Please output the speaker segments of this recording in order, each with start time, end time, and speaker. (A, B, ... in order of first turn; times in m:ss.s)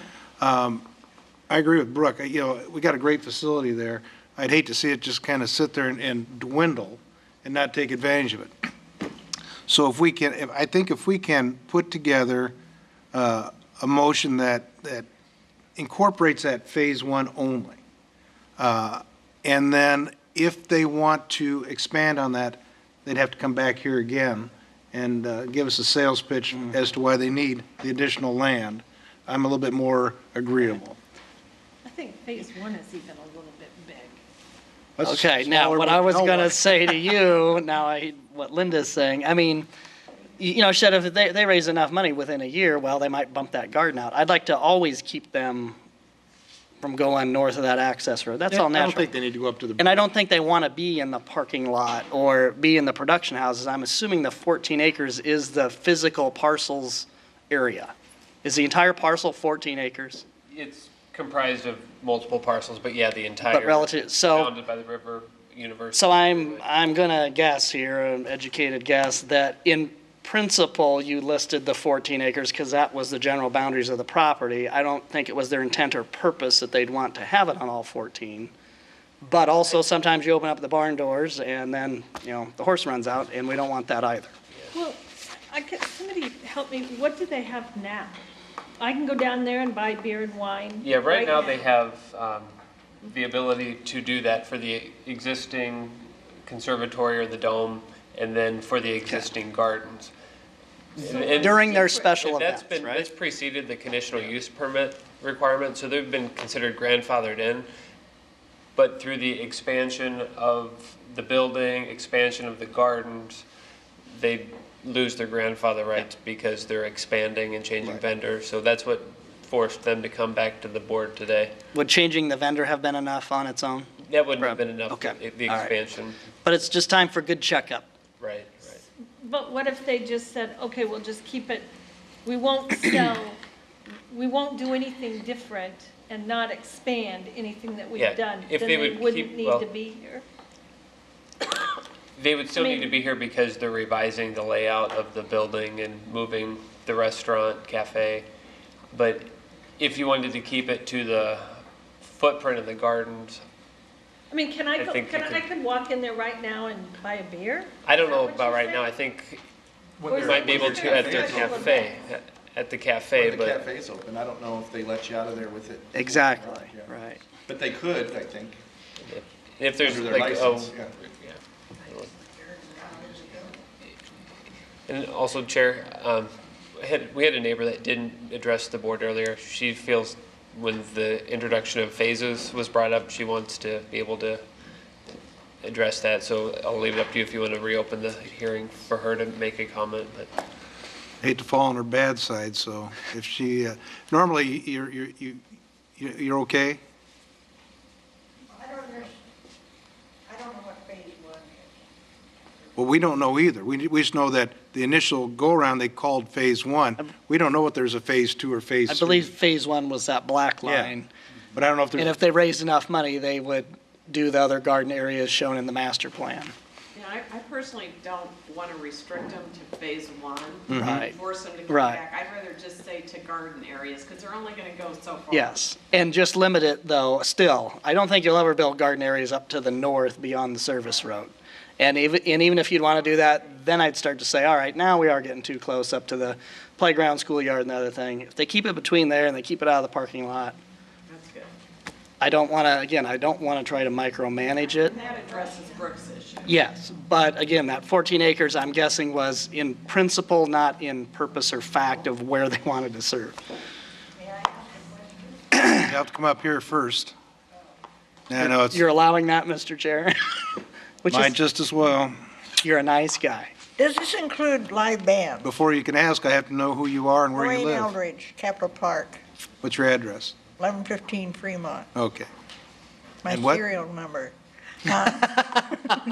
0:00.4-0:00.8 A
0:01.5-0:08.5 A
0:09.7-0:12.5 A
0:13.1-0:15.1 A
0:15.8-0:17.8 A
0:18.6-0:31.0 A
0:31.8-0:34.2 B
0:35.0-0:37.2 A
0:35.0-0:39.7 C
0:40.4-0:45.8 C
0:46.8-0:49.1 C
0:48.5-0:49.9 A
0:49.8-1:00.2 C
1:00.5-1:06.7 D
1:03.5-1:04.5 C
1:05.9-1:18.5 C
1:19.2-1:24.3 C
1:24.7-1:28.2 B
1:28.8-1:31.6 B
1:30.8-1:32.5 D
1:33.0-1:40.1 D
1:41.0-1:43.1 C
1:41.0-1:47.7 D
1:41.0-1:42.0 B
1:48.7-1:53.4 D
1:54.1-2:01.5 D
2:01.7-2:05.7 C
2:04.0-2:06.2 D
2:06.4-2:07.9 C
2:08.2-2:08.8 D
2:09.2-2:11.7 B
2:12.2-2:13.4 B
2:14.1-2:20.2 B
2:18.0-2:19.6 D
2:22.2-2:28.2 D
2:22.6-2:22.9 B
2:28.9-2:33.4 D
2:34.3-2:38.9 B
2:34.8-2:35.4 D
2:37.8-2:39.4 D
2:40.0-2:41.9 E
2:40.0-2:41.9 B
2:40.1-2:43.6 D
2:43.1-2:46.9 E
2:45.9-2:47.2 C
2:47.5-2:48.6 E
2:49.0-2:52.1 D
2:49.8-2:50.9 E
2:54.9-3:04.4 D
3:05.6-3:10.3 D
3:11.2-3:15.4 A
3:16.0-3:16.8 A
3:18.5-3:19.2 F
3:20.3-3:21.7 F
3:22.8-3:29.3 A
3:28.9-3:31.1 C
3:30.6-3:30.9 A
3:31.5-3:32.2 A
3:32.0-3:36.5 C
3:36.9-3:45.6 G
3:40.7-3:41.1 A
3:40.8-3:41.2 C
3:41.7-3:42.0 C
3:45.3-4:00.6 C
4:01.1-4:01.5 G
4:02.2-4:05.0 C
4:04.9-4:06.5 G
4:05.1-4:05.6 F
4:06.4-4:13.4 C
4:14.3-4:15.1 F
4:15.6-4:17.1 A
4:18.3-4:18.8 A
4:18.4-4:20.4 C
4:21.0-4:21.3 C
4:21.1-4:22.2 A
4:22.6-4:23.5 C
4:23.8-4:25.4 F
4:25.4-4:27.9 A
4:27.3-4:29.2 F
4:29.6-4:30.4 A
4:30.6-4:31.9 F
4:31.9-4:32.3 A
4:33.2-4:34.3 F
4:33.3-4:33.6 A
4:34.8-4:35.7 F